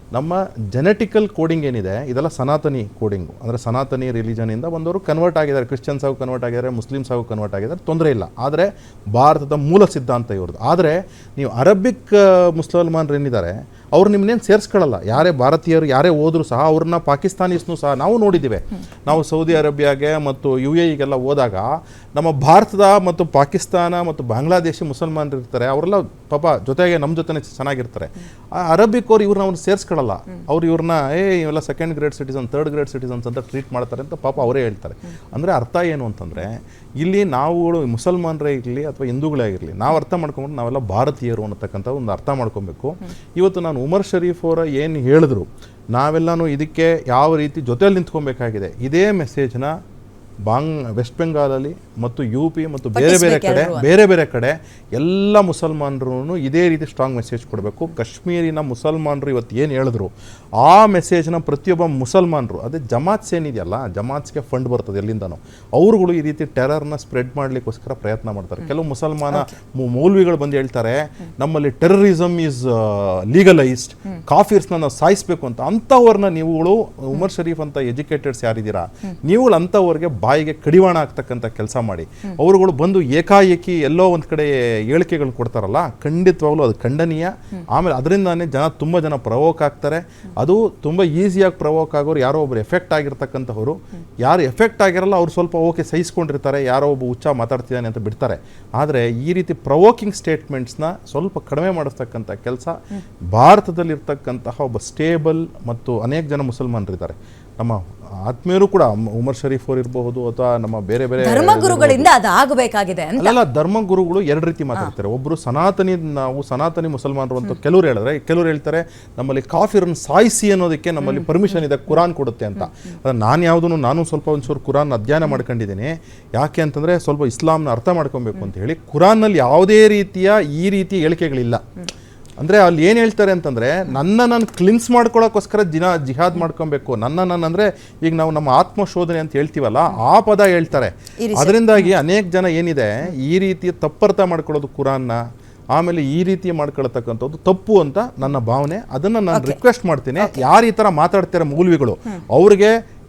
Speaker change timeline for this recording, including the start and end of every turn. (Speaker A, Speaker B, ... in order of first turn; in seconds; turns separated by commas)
Speaker A: 0.1-49.8, Speaker A: 50.5-102.8, Speaker B: 53.0-53.9, Speaker A: 103.3-112.1, Speaker B: 111.2-113.4, Speaker A: 113.2-131.6, Speaker A: 132.4-145.2, Speaker B: 141.2-141.6, Speaker A: 145.8-152.8, Speaker B: 149.3-149.6